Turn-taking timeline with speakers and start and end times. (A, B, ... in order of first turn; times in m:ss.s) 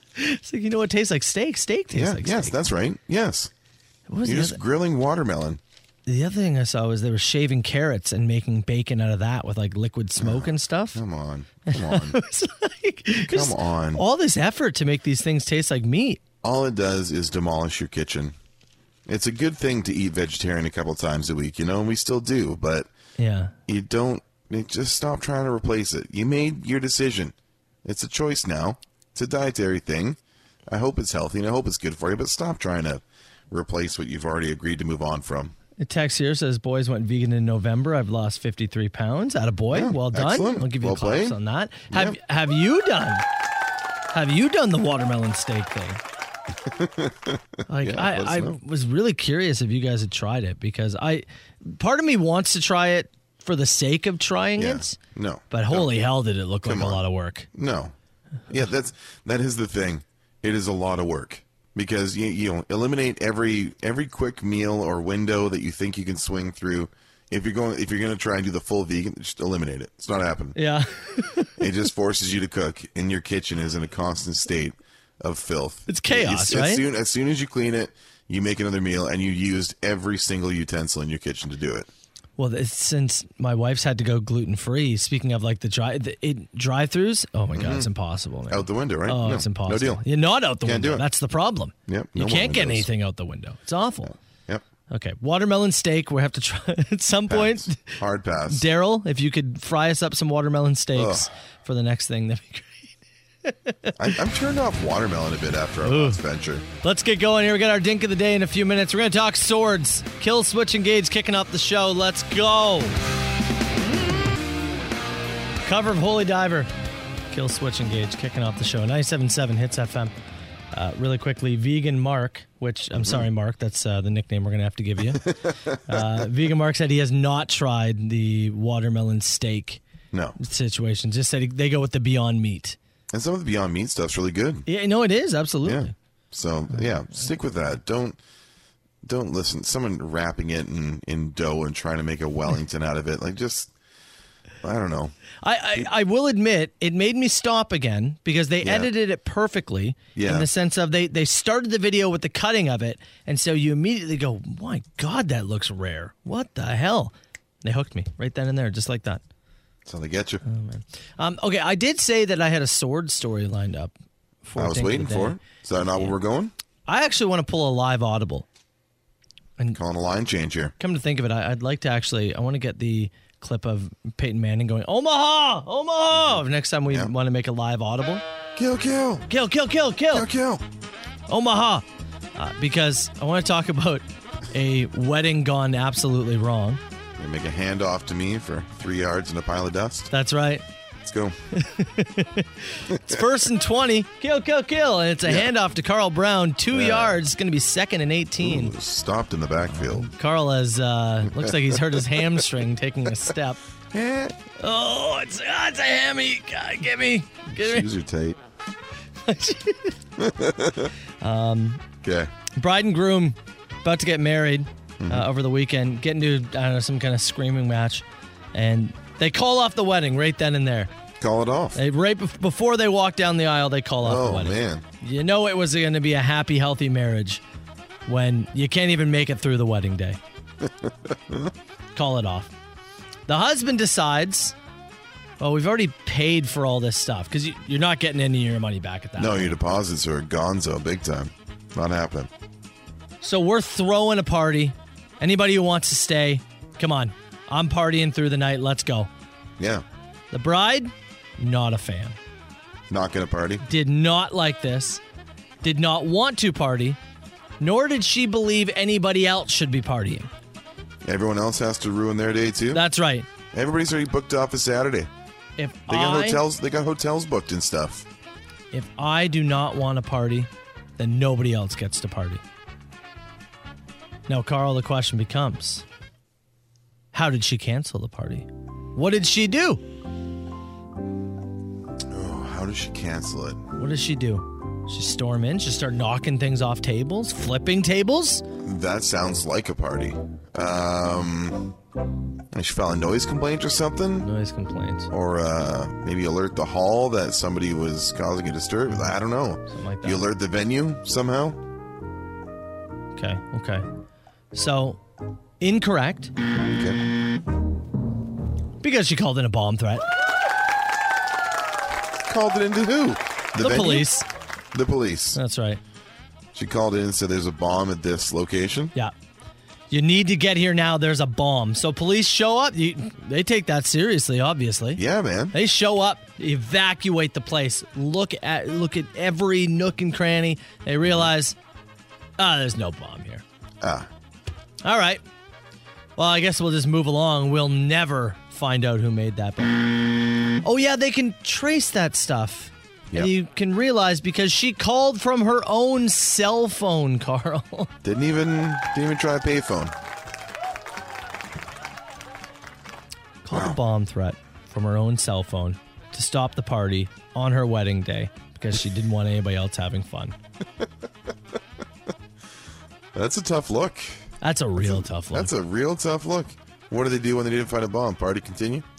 0:00.2-0:02.6 A
0:01.9-0:03.5 B
0:04.1-0:04.6 A
0:04.2-0:05.6 B
0:06.0-0:11.0 A
0:10.2-0:12.2 B
0:11.7-0:16.2 A
0:13.3-0:14.0 B
0:16.4-0:18.3 B
0:19.0-0:22.9 B
0:23.2-0:23.5 A
0:23.7-0:35.5 B
0:35.8-0:43.2 A
0:39.7-0:41.4 B
0:41.9-0:42.2 B
0:44.1-0:46.0 A
0:46.6-0:48.6 B
0:47.7-0:55.0 A
0:54.6-0:56.0 B
0:55.5-0:57.5 A
0:56.6-0:57.9 B
0:58.5-1:10.6 B
1:10.6-1:11.5 A
1:11.6-1:21.9 B
1:15.9-1:16.8 A
1:22.4-1:34.1 A
1:27.5-1:27.9 B
1:28.5-1:30.0 B
1:30.6-1:31.0 B
1:31.9-1:32.9 B
1:34.0-1:34.6 B
1:34.9-1:43.9 A
1:37.3-1:38.6 B
1:40.9-1:41.3 B
1:44.0-1:46.6 B
1:45.8-1:46.2 A
1:46.8-1:53.0 A
1:55.6-1:56.7 A
1:57.3-2:00.1 A
2:00.7-2:05.3 A
2:02.9-2:03.2 B
2:05.2-2:05.8 B
2:05.8-2:09.8 A
2:10.1-2:10.4 B
2:10.4-2:12.8 A
2:13.1-2:14.6 B
2:14.7-2:15.9 A
2:15.6-2:18.2 B
2:19.0-2:23.7 B
2:24.6-2:25.2 B
2:25.4-2:39.2 A
2:28.6-2:28.9 B
2:30.1-2:30.5 B
2:39.8-2:40.4 B
2:40.4-2:43.9 A
2:44.4-2:46.1 A
2:44.6-2:46.5 B
2:46.9-2:48.4 A
2:49.7-2:50.7 B
2:50.8-2:58.2 A
2:58.5-2:59.3 B
2:59.3-3:00.3 A
3:00.1-3:00.6 B
3:01.3-3:01.8 A
3:02.4-3:06.8 A
3:07.2-3:10.1 B
3:10.1-3:10.6 A
3:11.0-3:11.4 B
3:11.5-3:18.7 A
3:15.2-3:15.5 B
3:16.7-3:17.2 B
3:18.4-3:20.1 B
3:19.7-3:23.6 A
3:21.3-3:22.0 B
3:23.9-3:24.3 B
3:24.6-3:27.9 A
3:27.5-3:28.4 B
3:29.2-3:30.0 A
3:30.2-3:30.9 B
3:31.2-3:31.8 A
3:32.0-3:32.3 B
3:32.6-3:40.9 A
3:35.0-3:35.3 B
3:41.2-3:41.8 B
3:41.7-3:47.4 A
3:44.0-3:44.8 B
3:48.0-3:50.2 A
3:50.6-3:51.5 B
3:51.9-3:52.5 A
3:53.3-3:54.5 A
3:55.4-3:59.6 A
3:59.2-4:02.3 B
4:03.2-4:09.1 A
4:09.6-4:09.8 B
4:10.3-4:12.2 A
4:12.9-4:13.6 B
4:13.6-4:15.0 A
4:15.6-4:17.0 A
4:17.6-4:20.3 A
4:21.0-4:22.8 B
4:22.7-4:23.3 A
4:23.5-4:25.1 B
4:25.6-4:26.4 A
4:25.9-4:28.0 B
4:28.7-4:32.4 A
4:34.3-4:35.8 A
4:37.1-4:39.8 A
4:42.1-4:43.6 B
4:43.8-4:48.4 A
4:48.6-4:51.7 B
4:52.5-4:54.3 B
4:54.2-4:55.1 A
4:55.1-5:01.6 B
4:59.7-5:00.2 A
5:03.2-5:03.8 A
5:04.5-5:05.0 A
5:05.6-5:06.3 A
5:06.6-5:07.0 B
5:08.8-5:10.0 A
5:12.2-5:14.1 B
5:13.6-5:14.2 A
5:14.7-5:15.4 B
5:15.3-5:15.8 A
5:16.5-5:18.9 B
5:19.9-5:31.6 A
5:25.0-5:25.5 B
5:32.4-5:33.4 A
5:33.8-5:34.1 B
5:34.8-5:35.2 A
5:36.2-5:47.9 A
5:48.0-5:49.9 B
5:53.4-6:00.3 A
5:53.5-5:53.8 B
6:03.1-6:04.2 B
6:04.4-6:05.5 A
6:04.8-6:08.8 B